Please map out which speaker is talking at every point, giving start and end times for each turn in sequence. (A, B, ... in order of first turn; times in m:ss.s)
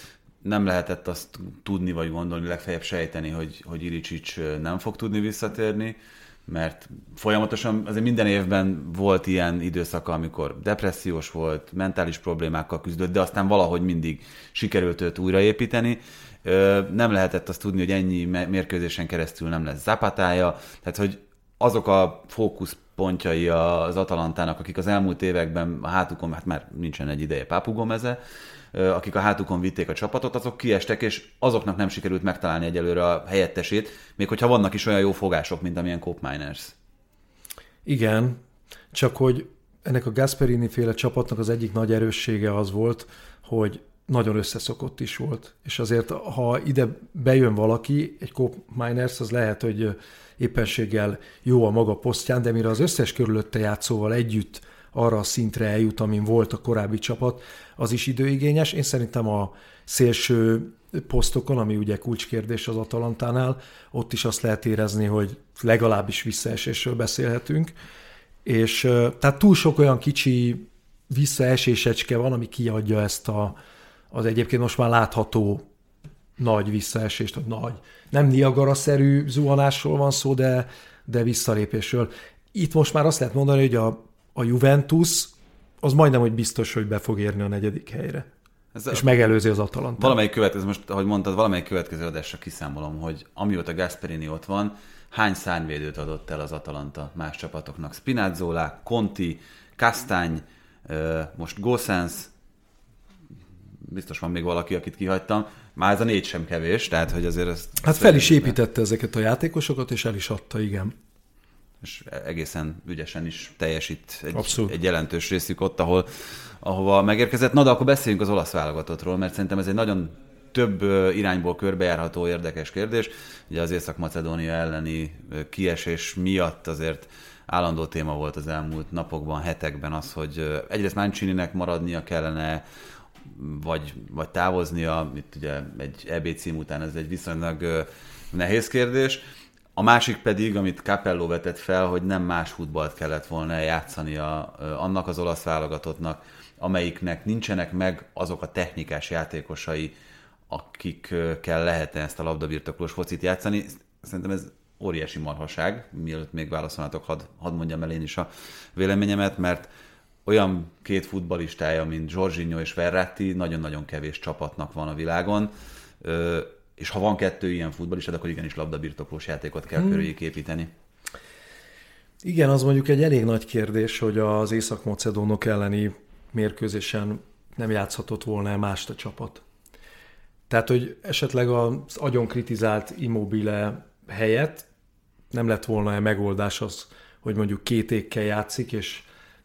0:00.4-0:06.0 A
0:06.5-0:28.2 A
0:28.7-0:36.7 A
0:37.8-0:38.4 B
0:38.9-1:07.7 B
1:08.4-1:13.6 B
1:14.1-1:15.6 B
1:16.4-1:28.3 B
1:28.7-1:29.2 A
1:28.9-1:30.2 B
1:30.0-1:42.3 A
1:43.9-1:48.6 A
1:47.8-1:50.9 B
1:51.8-2:12.6 A
1:54.3-1:54.8 B
2:13.3-2:19.2 A
2:19.8-2:29.9 A
2:30.5-2:39.7 A
2:40.2-2:50.7 A
2:52.2-2:59.4 B
3:00.5-3:04.6 B
3:05.3-3:09.0 B